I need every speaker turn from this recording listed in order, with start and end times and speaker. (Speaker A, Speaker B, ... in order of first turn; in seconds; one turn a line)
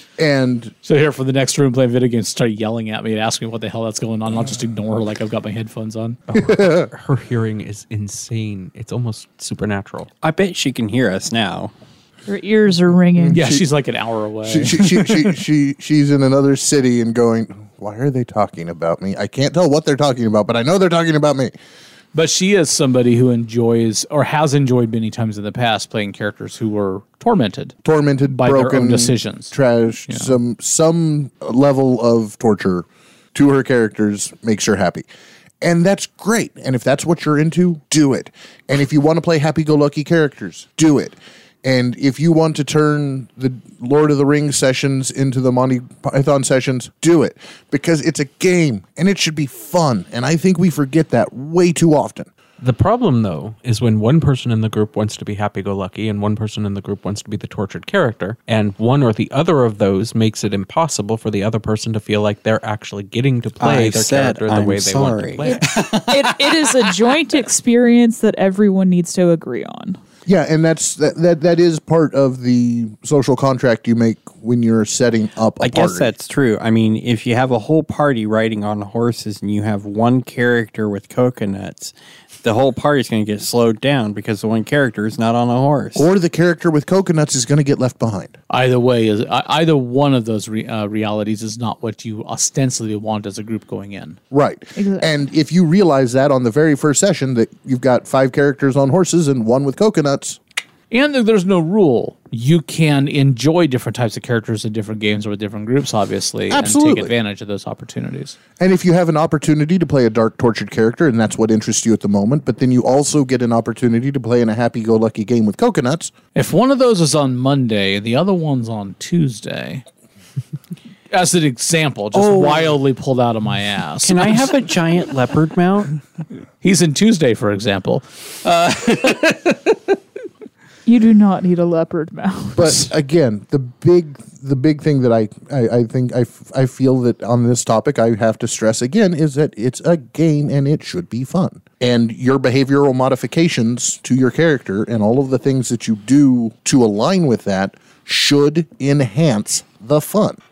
Speaker A: 0.2-0.7
Speaker B: 0.8-6.2
Speaker C: 6.3-10.1
Speaker A: 6.3-6.9
Speaker D: 10.2-11.7
Speaker E: 12.3-13.6
Speaker B: 13.3-15.3
Speaker A: 14.4-21.5
Speaker B: 22.1-27.7
Speaker A: 27.8-35.0
Speaker B: 28.3-29.5
Speaker B: 30.1-30.3
Speaker A: 35.6-52.3
Speaker C: 52.6-65.8
Speaker D: 63.6-65.5
Speaker E: 65.4-70.0
Speaker B: 65.6-66.3
Speaker A: 70.2-76.1
Speaker D: 75.6-86.1
Speaker A: 85.9-88.3
Speaker B: 88.5-94.2
Speaker A: 94.3-100.4
Speaker E: 94.8-95.1
Speaker B: 100.9-108.3
Speaker A: 106.5-107.1
Speaker A: 108.6-116.1
Speaker B: 116.3-119.8
Speaker B: 121.1-124.5
Speaker D: 122.1-122.7
Speaker D: 124.0-125.9
Speaker B: 126.6-129.8
Speaker E: 130.8-132.8
Speaker A: 132.6-150.4